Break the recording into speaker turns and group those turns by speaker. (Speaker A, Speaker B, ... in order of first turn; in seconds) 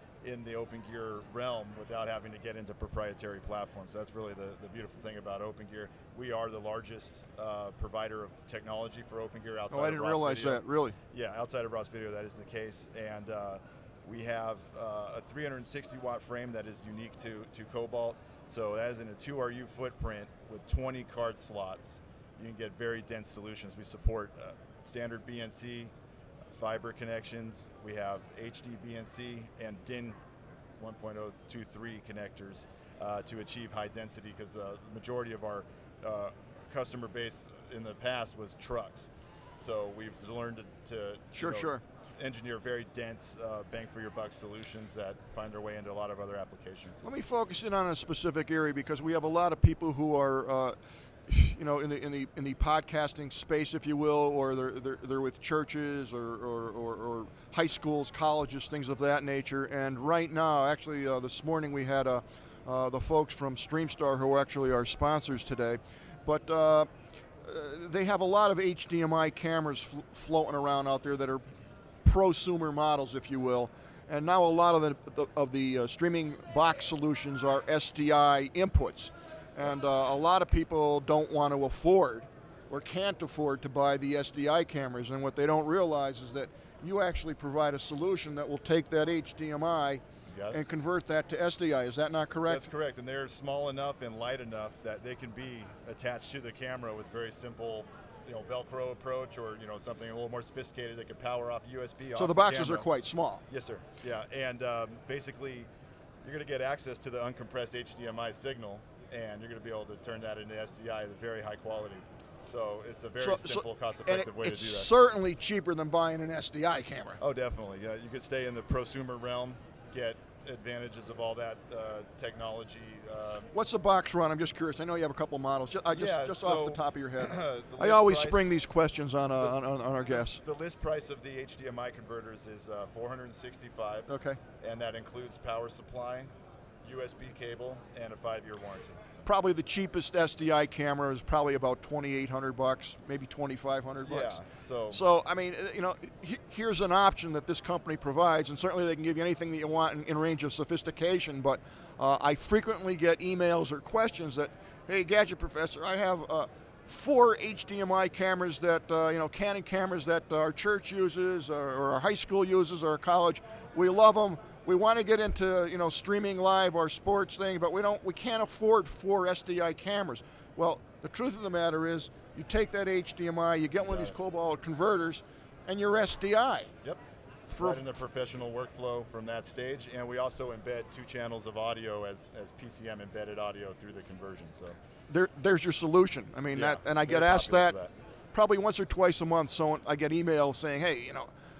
Speaker A: 0.2-30.2, 30.8-47.1, 90.2-90.6, 92.5-102.9, 103.5-105.7, 106.2-114.9, 117.2-123.5, 125.9-128.5, 129.4-136.3, 136.8-139.3, 144.0-145.0, 173.8-174.1, 177.6-184.8, 186.5-187.9
Speaker B: 9.7-11.0, 41.3-41.8, 47.0-50.8, 51.3-66.9, 67.4-71.4, 72.0-92.7, 102.2-103.4, 113.2-117.2, 123.5-130.4, 134.1-134.4, 139.2-144.4, 144.9-176.7, 177.5-177.9, 185.1-187.8, 188.3-191.3